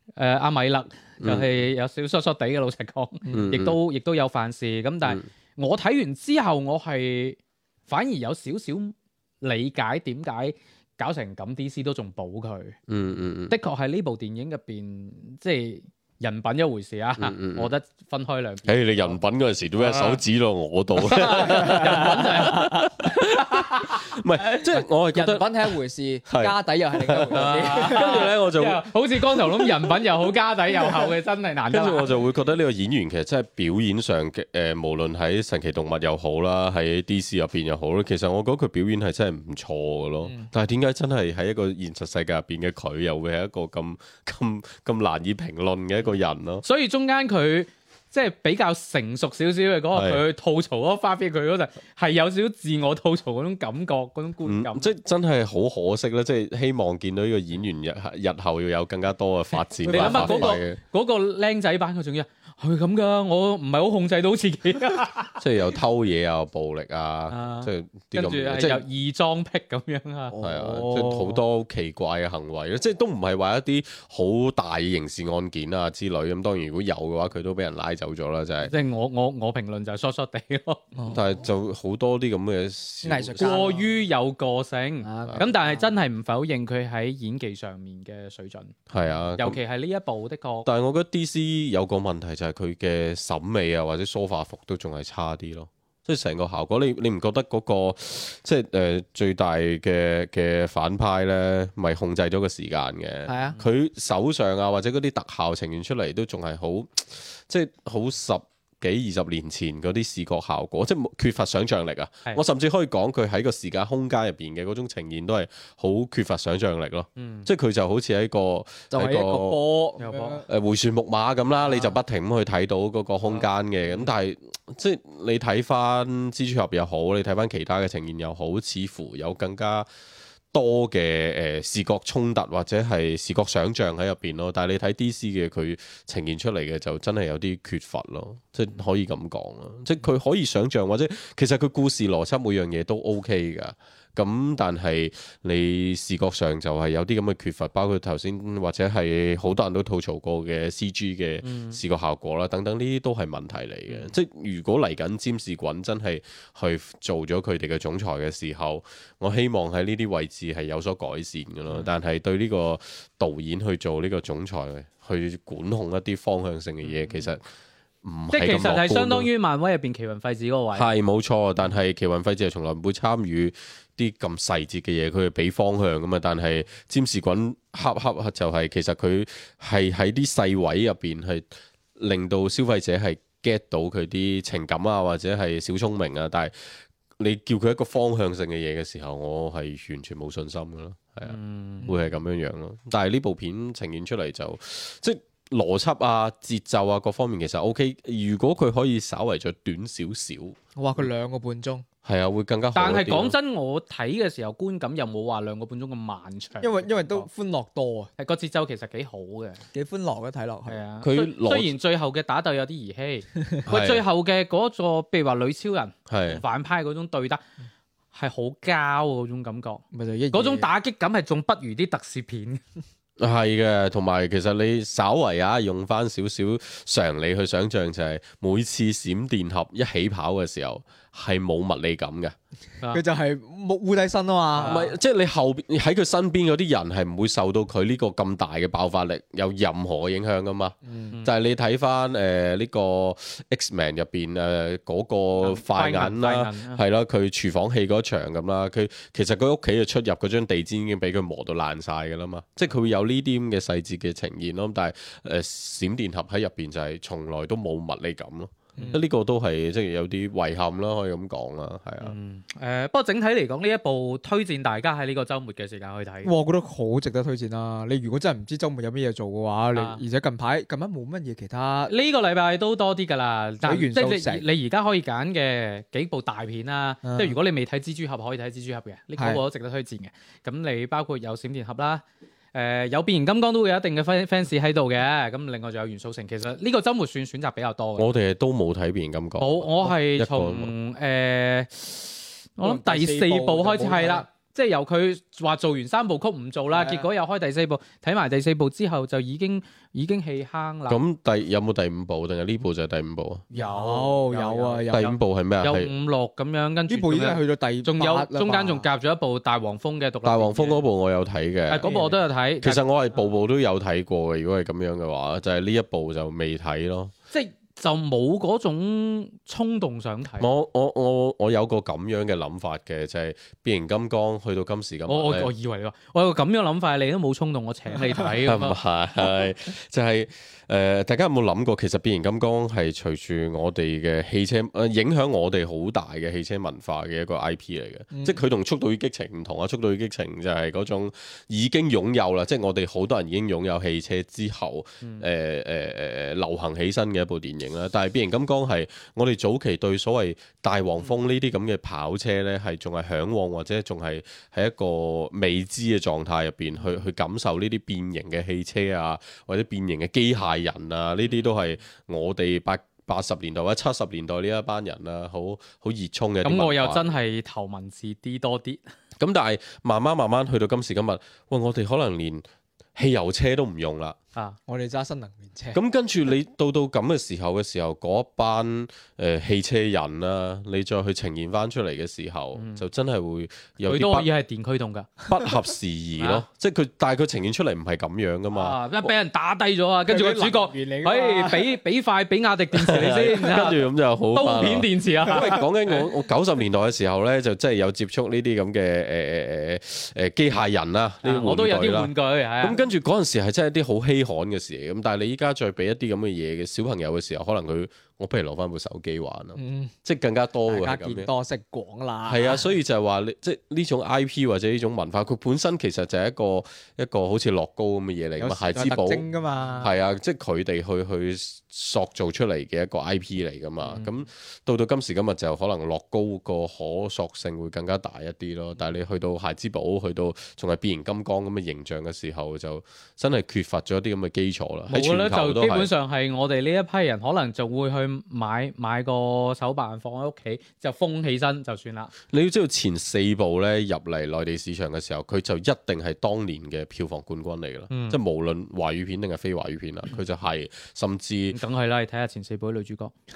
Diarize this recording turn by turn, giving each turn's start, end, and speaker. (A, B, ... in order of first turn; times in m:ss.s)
0:00.2-0:12.8 A
0:01.2-0:01.5 B
0:03.2-0:03.5 C
0:03.3-0:03.8 B
0:05.0-0:05.3 B
0:12.9-0:13.5 B
0:13.5-0:19.2 A
0:17.2-0:17.7 B
0:18.7-0:25.7 B
0:19.8-0:20.2 A
0:21.0-0:23.9 A
0:24.7-0:28.3 C
0:26.3-0:29.9 B
0:27.3-0:32.1 A
0:31.7-0:46.6 B
0:40.2-0:40.5 C
0:46.6-0:54.9 A
0:49.9-0:50.2 B
0:54.4-1:00.8 B
0:59.8-1:00.6 C
0:59.8-1:05.3 A
1:05.4-1:08.8 B
1:07.3-1:10.3 A
1:10.3-1:11.4 C
1:10.4-1:18.7 B
1:18.6-1:20.8 A
1:20.9-1:21.3 C
1:21.1-1:23.6 B
1:23.0-1:23.8 C
1:23.4-1:28.8 A
1:25.0-1:25.9 C
1:28.9-1:29.6 B
1:29.4-1:30.7 A
1:30.6-1:59.6 B
1:43.3-1:43.6 C
1:57.2-1:57.5 A
1:58.9-2:00.5 C
2:00.0-2:00.4 A
2:00.5-2:09.9 B
2:03.3-2:04.1 A
2:10.5-2:47.4 B
2:31.4-2:31.8 A
2:46.8-2:47.3 A
2:48.0-2:49.3 B
2:48.3-2:50.9 A
2:50.7-3:20.6 B
3:11.2-3:11.9 A
3:20.8-3:21.8 C
3:22.0-3:23.3 B
3:22.7-3:27.3 A
3:26.6-3:28.1 C
3:28.2-3:29.6 A
3:29.7-3:30.8 C
3:30.7-3:37.4 A
3:31.0-3:31.7 B
3:33.7-3:34.0 B
3:36.1-3:36.4 B
3:38.1-3:39.8 A
3:39.9-3:40.7 C
3:40.3-3:42.6 A
3:43.2-3:52.3 B
3:52.9-3:54.9 C
3:54.6-3:54.9 A
3:54.6-4:22.1 B
4:00.8-4:01.1 C
4:05.4-4:06.8 A
4:18.8-4:19.0 C
4:22.0-4:26.3 A
4:26.2-4:31.9 C
4:29.7-4:30.0 A
4:31.9-4:42.0 A
4:33.6-4:34.4 C
4:37.0-4:37.4 C
4:39.2-4:39.4 C
4:42.5-4:48.1 A
4:48.0-4:50.7 B
4:49.4-5:01.0 A
4:52.6-4:54.2 C
4:56.7-4:57.1 C
5:00.9-5:03.4 B
5:03.5-5:05.2 C
5:03.5-5:10.8 A
5:04.9-5:05.9 B
5:06.9-5:08.8 C
5:10.2-5:11.9 B
5:11.7-5:12.8 A
5:11.8-5:12.2 C
5:12.6-5:17.1 B
5:17.3-5:20.5 A
5:20.4-5:25.5 B
5:25.1-5:28.8 A
5:28.4-6:07.1 B
5:38.1-5:38.4 C
6:06.4-6:08.8 A
6:09.2-6:14.2 B
6:14.7-6:15.8 C
6:15.7-6:24.3 B
6:22.5-6:22.8 A
6:23.8-6:25.1 A
6:25.2-6:29.1 B
6:26.2-6:26.4 A
6:28.5-6:33.8 A
6:30.1-6:31.8 C
6:32.7-6:51.3 B
6:34.3-6:35.6 A
6:41.2-6:42.8 A
6:49.6-6:49.9 C
6:50.6-6:52.6 C
6:52.3-6:59.2 B
6:58.4-6:59.9 C
6:59.8-7:15.9 B
7:14.9-7:22.1 A
7:22.3-7:31.6 B
7:27.9-7:28.2 A
7:31.5-7:33.1 A